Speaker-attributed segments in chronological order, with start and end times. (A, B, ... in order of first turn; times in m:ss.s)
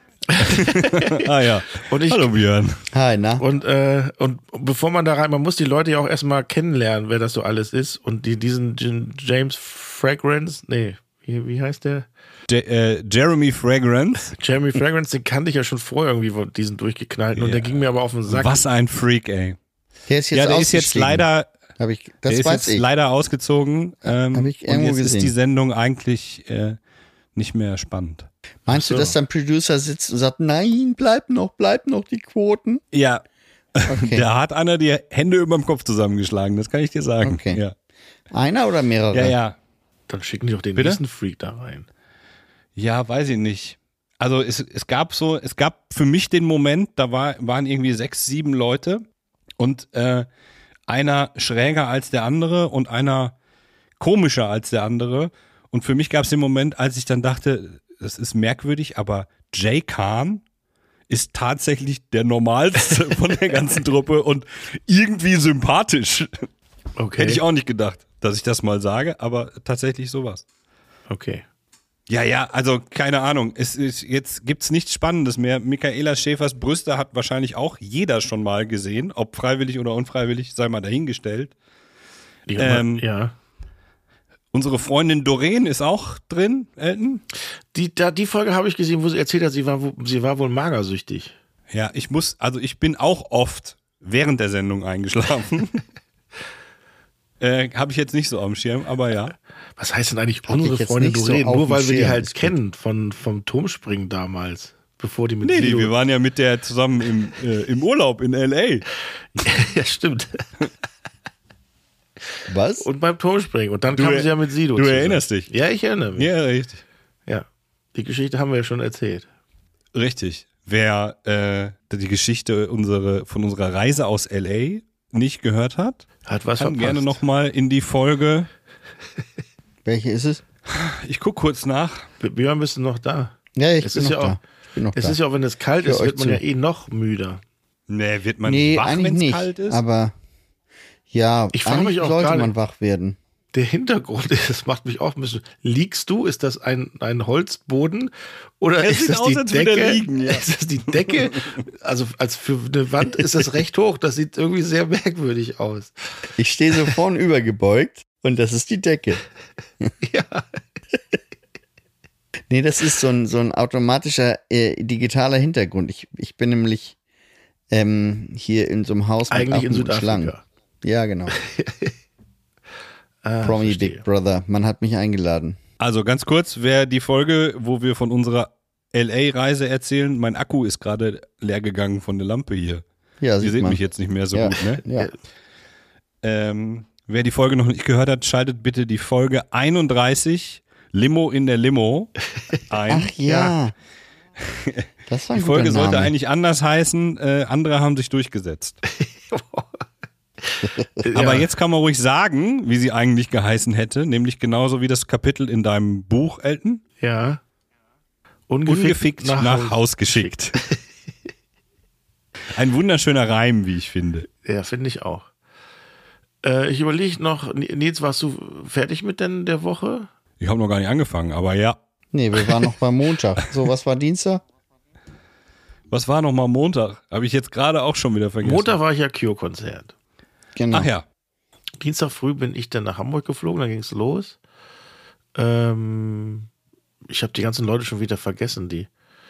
0:00.3-0:01.2 A
0:00.4-0:02.8 B
0:01.9-0:02.3 A
0:02.9-0:03.4 C
0:03.4-0:12.1 A
0:12.5-0:14.3 B
0:14.3-0:18.6 A
0:17.4-0:17.8 B
0:18.3-0:19.6 B
0:20.1-0:21.2 C
0:20.3-0:21.5 B
0:21.8-0:22.8 C
0:22.3-0:26.8 B
0:24.3-0:25.3 C
0:27.3-0:28.3 B
0:28.6-0:32.8 C
0:28.7-0:29.2 A
0:32.9-0:33.2 B
0:33.8-0:37.7 B
0:33.9-0:34.2 C
0:37.2-0:37.6 C
0:38.3-0:39.3 C
0:39.1-0:39.6 B
0:40.1-0:41.9 A
0:42.8-0:49.0 B
0:49.6-0:50.3 B
0:50.9-0:53.3 B
0:54.0-1:00.4 B
1:01.1-1:06.5 B
1:07.0-1:07.4 A
1:07.2-1:10.4 B
1:11.1-1:11.4 A
1:12.1-1:21.5 B
1:22.5-1:23.3 A
1:22.6-1:23.0 B
1:24.5-1:27.2 B
1:27.7-1:31.3 A
1:31.7-1:35.8 B
1:37.4-1:39.3 B
1:39.8-1:45.9 A
1:40.5-1:42.5 C
1:45.4-1:48.8 B
1:49.4-1:50.4 A
1:52.5-1:52.9 C
1:52.8-1:56.3 A
1:53.9-1:55.5 B
1:56.2-1:56.8 B
1:57.3-1:59.2 A
1:59.9-2:06.0 B
2:06.2-2:07.2 A
2:06.6-2:08.5 B
2:09.8-2:10.4 C
2:10.7-2:12.0 B
2:12.2-2:14.4 A
2:13.6-2:15.2 C
2:14.9-2:17.4 A
2:15.8-2:16.4 C
2:17.9-2:19.8 B
2:18.4-2:20.1 C
2:21.1-2:23.2 C
2:21.5-2:22.5 A
2:23.5-2:35.9 A
2:28.8-2:30.5 B
2:36.4-2:39.2 C
2:40.0-2:40.4 A
2:42.5-2:47.0 C
2:47.7-2:51.4 C
2:49.3-2:50.4 A
2:51.3-2:51.9 A
2:53.2-2:54.0 A
2:53.4-2:55.6 C
2:55.8-3:02.8 B
3:03.2-3:03.8 C
3:03.4-3:04.8 B
3:04.3-3:05.1 C
3:06.2-3:12.1 B
3:12.7-3:13.2 B
3:12.9-3:13.7 C
3:14.4-3:18.8 B
3:15.1-3:16.1 C
3:19.0-3:19.8 A
3:20.5-3:21.5 A
3:21.1-3:26.8 B
3:27.0-3:27.4 A
3:28.5-3:30.8 A
3:28.6-3:30.6 B
3:32.5-3:34.3 B
3:34.4-3:35.3 A
3:36.4-3:40.1 A
3:40.4-3:41.8 B
3:42.1-3:44.4 C
3:45.9-3:48.7 B
3:48.4-3:49.9 A
3:50.6-3:50.9 C
3:50.7-3:51.0 B
3:51.8-3:54.4 A
3:55.3-3:56.5 A
3:57.1-3:58.9 A